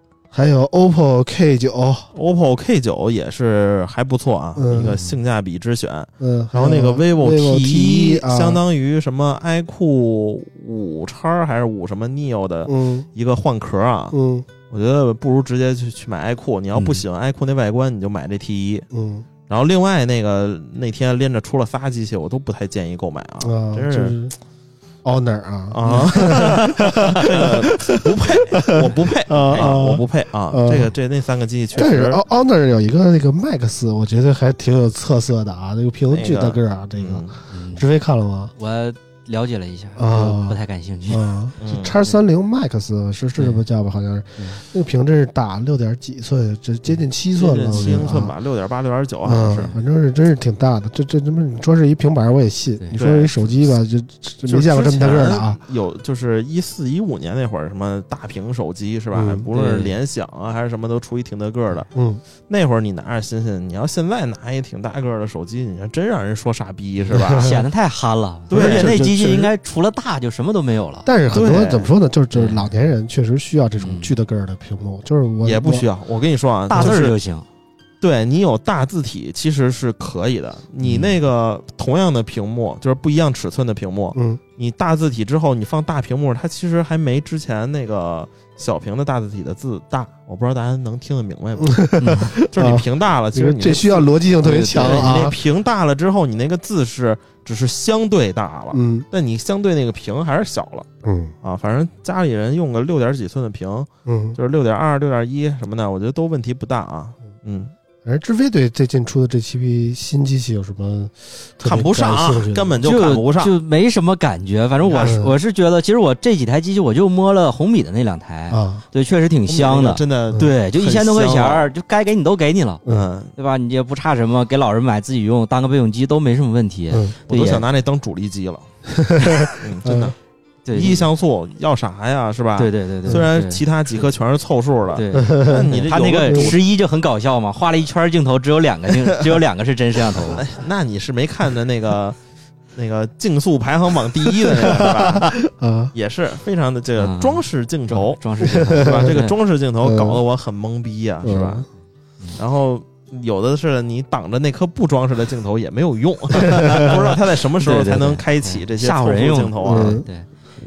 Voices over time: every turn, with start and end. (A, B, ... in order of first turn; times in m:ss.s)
0:00.3-0:02.1 A
0:02.2-0:14.2 B
0:04.6-0:05.1 A
0:06.2-0:08.6 A
0:12.7-0:13.1 A
0:14.1-0:14.5 A
0:14.7-0:18.9 B
0:16.8-0:17.0 C
0:18.9-0:19.3 A
0:19.5-0:24.2 B
0:23.4-0:24.4 A
0:25.0-0:30.9 A
0:25.7-0:32.2 B
0:31.8-0:38.5 A
0:36.1-0:37.4 B
0:37.5-0:37.8 C
0:38.6-0:41.2 C
0:40.0-0:48.4 A
0:41.6-0:42.0 B
0:43.4-0:43.6 C
0:47.3-0:49.7 B
0:49.2-0:55.6 A
0:52.9-0:53.8 B
0:54.4-1:01.9 B
0:59.1-0:59.5 A
0:59.5-0:59.9 C
1:01.9-1:02.2 A
1:02.5-1:07.6 B
1:07.1-1:07.6 A
1:07.1-1:11.1 C
1:08.5-1:09.1 B
1:08.5-1:09.5 A
1:11.0-1:15.9 A
1:11.3-1:11.9 B
1:12.3-1:12.7 C
1:13.8-1:14.1 C
1:15.4-1:17.2 B
1:16.7-1:17.4 C
1:18.0-1:40.9 B
1:20.8-1:21.2 C
1:24.1-1:24.4 A
1:31.6-1:35.4 A
1:32.0-1:32.3 C
1:34.5-1:35.1 C
1:38.7-1:39.1 A
1:41.0-1:41.4 A
1:41.4-1:47.7 B
1:44.1-1:44.4 A
1:48.0-1:52.8 A
1:51.6-1:53.5 B
1:52.8-2:02.8 C
1:54.9-1:55.2 B
1:54.9-1:55.3 A
1:58.5-1:58.8 A
1:59.5-2:01.7 B
2:02.9-2:03.3 B
2:03.4-2:07.6 C
2:06.9-2:07.2 A
2:07.3-2:08.7 B
2:08.9-2:10.1 A
2:09.5-2:10.2 B
2:10.7-2:11.1 C
2:10.7-2:16.6 B
2:12.6-2:13.6 C
2:14.9-2:20.5 C
2:15.1-2:16.5 A
2:19.1-2:19.4 B
2:20.1-2:22.2 B
2:22.8-2:25.4 B
2:24.4-2:25.9 A
2:25.9-2:31.7 B
2:27.0-2:29.3 C
2:28.4-2:29.2 A
2:29.8-2:30.2 A
2:31.2-2:31.7 A
2:32.4-2:40.0 B
2:36.4-2:37.0 A
2:36.5-2:37.0 C
2:37.6-2:40.3 C
2:39.6-2:40.1 A